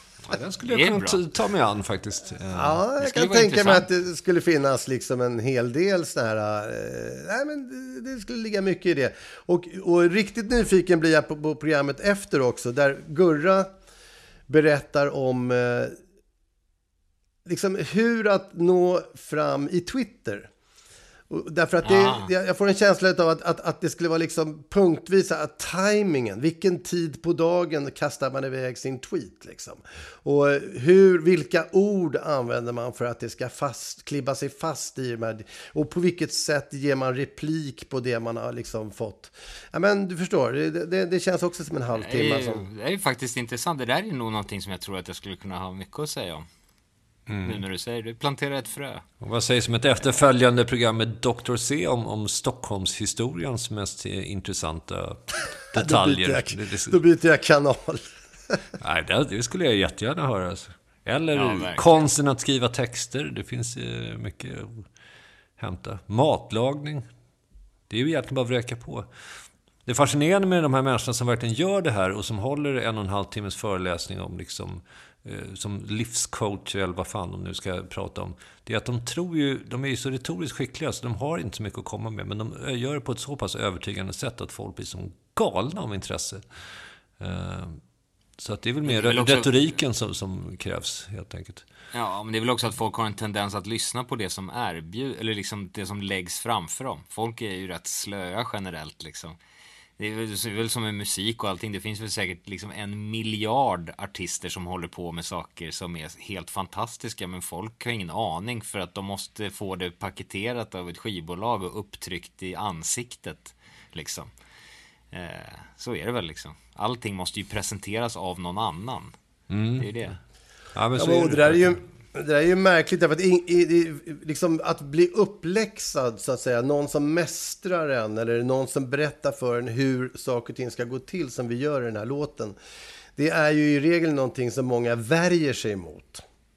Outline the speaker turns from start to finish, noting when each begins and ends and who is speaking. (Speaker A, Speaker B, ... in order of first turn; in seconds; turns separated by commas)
Speaker A: 0.2-2.8, Speaker B: 0.7-1.2, Speaker C: 2.5-13.7, Speaker B: 3.0-3.9, Speaker C: 14.5-15.9, Speaker C: 17.4-20.5, Speaker C: 21.3-42.7, Speaker B: 21.8-22.3, Speaker B: 41.9-46.5, Speaker A: 47.3-47.6, Speaker B: 47.4-49.0, Speaker A: 49.2-57.0, Speaker C: 55.7-58.6, Speaker A: 58.8-64.8, Speaker B: 61.3-61.9, Speaker A: 65.6-67.0, Speaker A: 67.9-69.1, Speaker A: 69.9-86.4, Speaker A: 87.2-87.8, Speaker A: 88.4-91.6, Speaker B: 88.8-89.5, Speaker B: 91.9-99.4, Speaker B: 100.0-114.3, Speaker B: 115.1-119.1, Speaker A: 119.5-120.2, Speaker B: 119.8-120.2, Speaker A: 120.7-121.8, Speaker C: 120.9-132.6, Speaker C: 133.2-136.2